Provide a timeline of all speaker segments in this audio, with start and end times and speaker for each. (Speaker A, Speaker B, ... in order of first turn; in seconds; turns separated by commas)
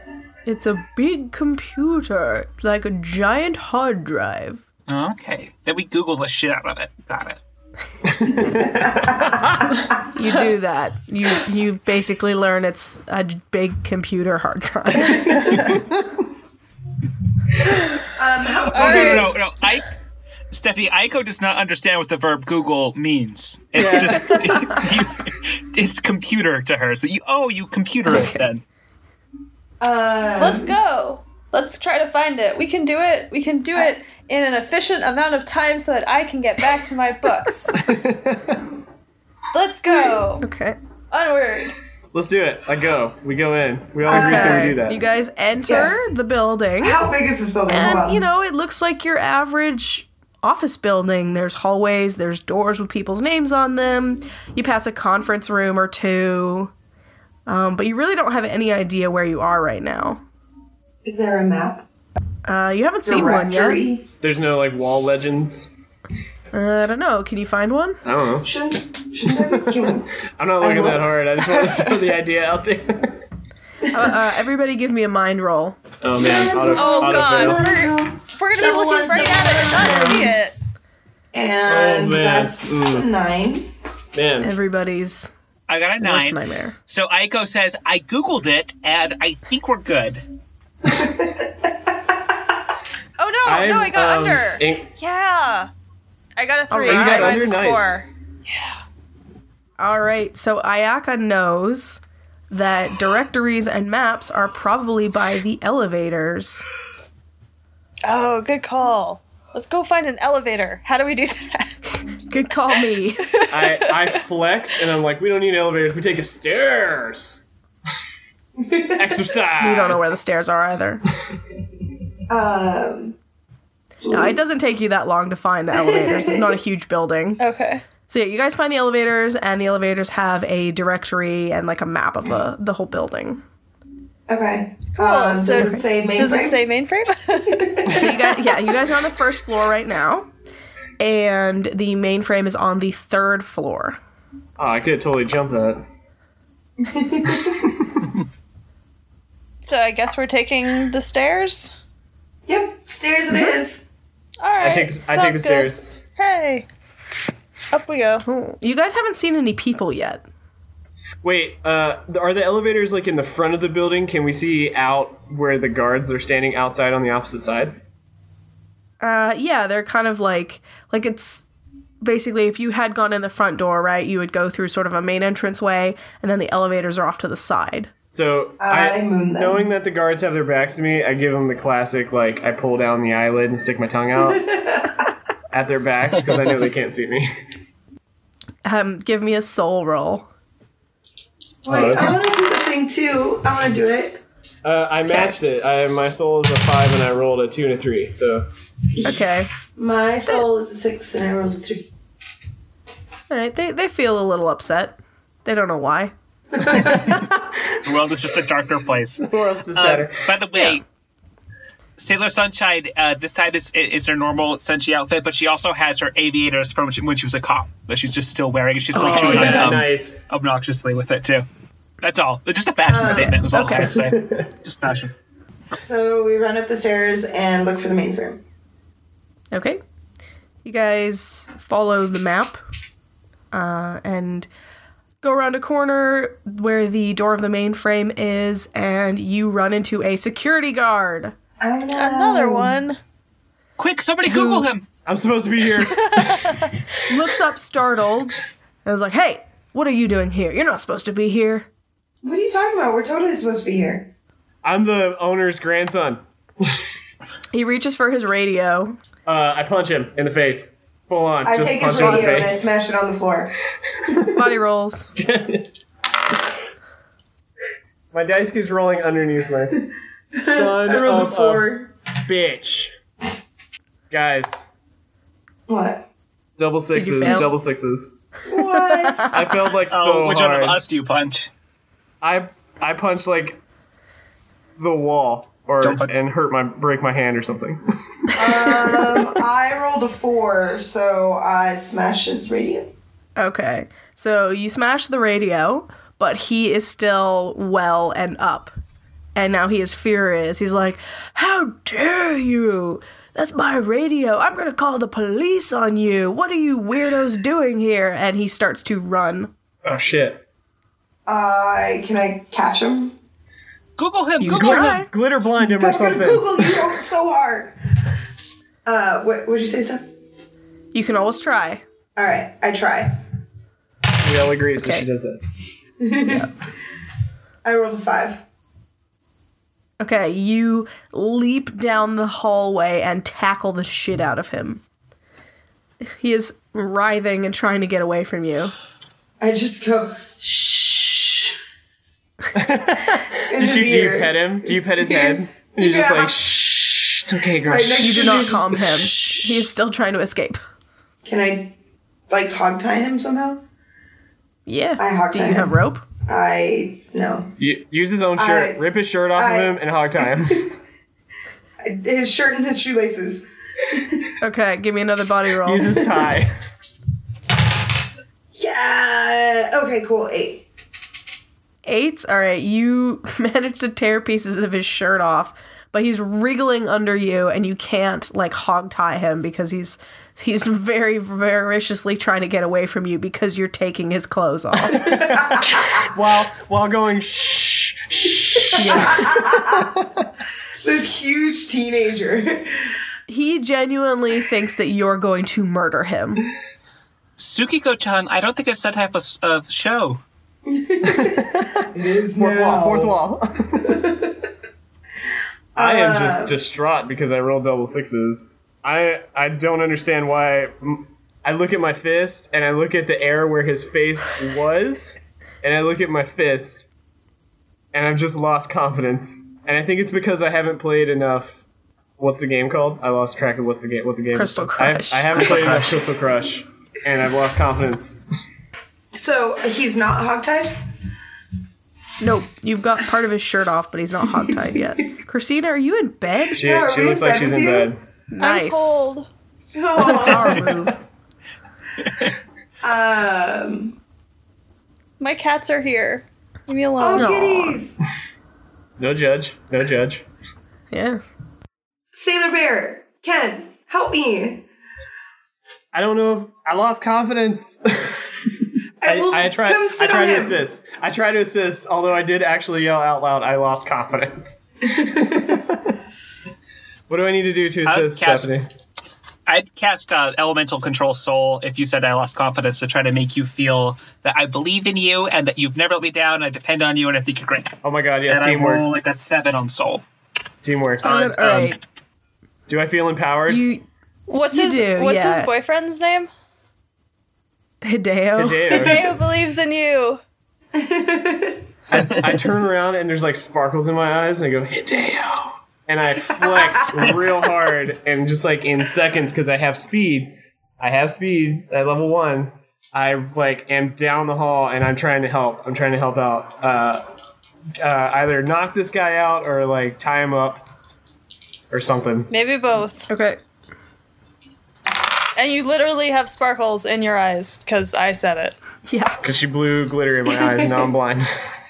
Speaker A: 0.5-4.6, Speaker B: 4.9-7.4, Speaker C: 8.1-8.7, Speaker D: 8.4-10.0, Speaker A: 10.2-15.5, Speaker D: 15.0-15.5, Speaker E: 15.3-15.8, Speaker C: 15.7-16.0, Speaker D: 18.2-19.4, Speaker E: 18.7-19.4, Speaker B: 18.8-19.9, Speaker B: 20.5-28.6, Speaker A: 23.8-24.9, Speaker A: 28.1-28.4, Speaker D: 29.8-30.7, Speaker E: 30.4-37.8, Speaker C: 37.8-38.6, Speaker E: 39.5-40.5, Speaker A: 40.4-40.8, Speaker E: 41.1-41.8, Speaker C: 42.1-45.0, Speaker D: 44.0-44.8, Speaker A: 44.1-47.0, Speaker D: 45.7-46.1, Speaker D: 46.8-48.2, Speaker A: 47.7-56.7, Speaker A: 57.5-60.2, Speaker D: 61.0-61.9, Speaker A: 62.5-63.8, Speaker D: 63.0-64.0, Speaker C: 64.2-65.7, Speaker A: 66.5-68.0, Speaker C: 68.0-68.5, Speaker D: 68.4-70.1, Speaker C: 70.4-73.2, Speaker D: 70.6-71.9, Speaker D: 73.8-74.2, Speaker A: 73.9-75.8, Speaker C: 76.0-77.7, Speaker D: 76.1-80.7, Speaker E: 76.7-80.6, Speaker A: 79.8-80.3, Speaker D: 81.3-83.7, Speaker C: 81.7-83.1, Speaker C: 84.1-84.5, Speaker A: 84.4-85.3, Speaker B: 85.7-90.2, Speaker A: 86.0-86.8, Speaker D: 90.8-91.7, Speaker E: 93.2-95.7, Speaker C: 93.5-94.9, Speaker E: 96.4-98.8, Speaker A: 96.7-97.6, Speaker C: 96.9-98.0, Speaker A: 99.8-106.7, Speaker E: 108.0-111.8, Speaker A: 112.3-113.3, Speaker E: 113.3-114.2, Speaker C: 113.5-117.4, Speaker D: 118.6-119.3, Speaker C: 119.0-120.2, Speaker A: 119.6-121.0, Speaker D: 122.3-123.2, Speaker D: 124.0-124.4, Speaker A: 124.1-127.4, Speaker D: 125.7-126.5, Speaker E: 127.4-127.8, Speaker A: 128.1-133.4, Speaker D: 134.3-136.6, Speaker E: 134.9-138.7, Speaker A: 135.5-135.8, Speaker D: 137.6-138.1, Speaker A: 137.9-140.3, Speaker A: 141.0-144.0, Speaker C: 144.6-145.8, Speaker D: 146.8-147.7, Speaker E: 149.6-151.8, Speaker D: 152.5-153.8, Speaker A: 153.3-153.6, Speaker E: 154.4-156.7, Speaker C: 154.6-155.9, Speaker E: 157.7-158.3, Speaker A: 158.2-160.2, Speaker C: 161.2-167.8, Speaker A: 169.0-171.5, Speaker A: 172.0-177.9, Speaker C: 178.1-184.4, Speaker D: 178.6-179.7, Speaker D: 184.2-185.1, Speaker C: 185.5-187.3, Speaker A: 188.7-190.3, Speaker D: 191.7-194.2, Speaker C: 191.7-192.2, Speaker C: 194.6-198.5, Speaker A: 195.1-195.4, Speaker D: 198.9-199.2, Speaker A: 199.0-199.5, Speaker D: 199.8-201.9, Speaker A: 203.3-206.1, Speaker C: 206.8-207.4, Speaker B: 207.8-210.8, Speaker C: 209.2-210.2, Speaker A: 210.6-210.8, Speaker B: 212.0-221.5, Speaker C: 218.9-220.3, Speaker A: 219.0-219.7, Speaker B: 222.0-225.1, Speaker D: 222.9-223.5, Speaker A: 223.4-224.0, Speaker C: 223.7-224.5, Speaker D: 225.7-228.4, Speaker A: 229.5-229.8, Speaker A: 230.6-232.6, Speaker A: 233.5-234.5, Speaker A: 235.2-241.3, Speaker D: 241.6-242.8, Speaker E: 241.9-243.0, Speaker B: 243.8-244.9, Speaker C: 245.1-246.7, Speaker E: 245.9-246.7, Speaker A: 247.1-251.7, Speaker D: 252.2-254.1, Speaker C: 254.6-256.8, Speaker A: 257.5-259.0, Speaker C: 259.3-262.7, Speaker D: 261.4-263.5, Speaker A: 261.9-262.6, Speaker C: 264.0-264.4, Speaker A: 264.3-265.1, Speaker C: 265.1-265.7, Speaker C: 268.1-269.8, Speaker D: 270.3-271.9, Speaker C: 270.4-271.7, Speaker C: 272.2-272.9, Speaker C: 274.1-274.7, Speaker D: 275.7-276.1, Speaker C: 276.6-278.1, Speaker A: 276.9-277.5, Speaker D: 278.5-279.5, Speaker A: 278.6-279.4, Speaker C: 279.3-280.8, Speaker B: 279.9-281.5, Speaker C: 282.2-283.6, Speaker C: 284.8-287.8, Speaker B: 285.8-286.1, Speaker D: 288.4-292.9, Speaker A: 288.5-289.1, Speaker A: 293.4-298.7, Speaker A: 299.4-309.5, Speaker C: 309.8-310.4, Speaker D: 311.3-313.1, Speaker B: 314.0-315.1, Speaker A: 314.4-315.1, Speaker C: 314.4-316.9, Speaker D: 315.6-317.8, Speaker D: 318.9-320.1, Speaker A: 320.9-321.8, Speaker D: 322.2-323.1, Speaker C: 324.2-325.4, Speaker A: 324.8-325.1, Speaker D: 326.0-326.5, Speaker A: 326.3-326.5, Speaker D: 327.6-328.4, Speaker A: 330.0-334.8, Speaker A: 336.1-338.7, Speaker D: 339.4-341.5, Speaker C: 342.5-348.9, Speaker D: 343.5-346.4, Speaker D: 347.6-349.6, Speaker A: 348.0-350.6, Speaker D: 351.2-351.7, Speaker D: 352.3-353.6, Speaker A: 354.7-356.1, Speaker D: 355.0-355.7, Speaker D: 356.3-357.5, Speaker C: 357.6-360.7, Speaker D: 358.4-360.4, Speaker D: 361.8-364.3, Speaker A: 364.4-366.1, Speaker C: 365.6-366.5, Speaker D: 368.6-370.6, Speaker A: 371.9-385.1, Speaker D: 384.9-386.1, Speaker C: 385.1-390.3, Speaker A: 388.8-389.3, Speaker D: 388.9-389.9, Speaker D: 390.8-392.9, Speaker A: 393.3-396.5, Speaker B: 397.4-400.2, Speaker D: 400.7-403.2, Speaker C: 401.1-404.1, Speaker D: 403.8-404.3, Speaker D: 405.8-406.6, Speaker C: 405.8-416.9, Speaker C: 417.9-421.6, Speaker C: 422.2-428.2, Speaker A: 424.3-425.8, Speaker B: 425.4-425.9, Speaker D: 429.1-430.8, Speaker A: 432.2-436.6, Speaker C: 436.6-438.0, Speaker D: 436.6-437.9, Speaker A: 438.3-439.1, Speaker E: 438.4-439.3, Speaker D: 439.7-440.8, Speaker A: 439.9-441.0, Speaker D: 442.8-444.0, Speaker E: 445.2-447.4, Speaker D: 447.0-448.0, Speaker A: 447.1-447.8, Speaker C: 449.0-450.2, Speaker A: 450.9-451.2, Speaker D: 452.1-454.6, Speaker C: 455.9-465.9, Speaker D: 459.0-460.6, Speaker C: 467.1-468.7, Speaker B: 467.9-468.5, Speaker B: 469.5-480.0, Speaker C: 477.8-478.9, Speaker C: 480.6-481.2, Speaker A: 481.0-481.8, Speaker B: 481.0-481.8, Speaker C: 482.7-483.6, Speaker A: 483.5-483.9, Speaker E: 484.3-486.3, Speaker A: 484.5-485.5, Speaker A: 487.8-488.9, Speaker C: 488.4-489.0, Speaker E: 488.7-490.2, Speaker D: 488.8-489.0, Speaker D: 490.7-491.6, Speaker C: 491.9-507.0, Speaker D: 496.4-497.2, Speaker C: 507.8-510.6, Speaker C: 511.7-512.3, Speaker E: 512.3-513.1, Speaker A: 513.1-513.4, Speaker E: 515.4-518.6, Speaker A: 518.9-519.2, Speaker C: 519.2-521.3, Speaker D: 520.4-520.9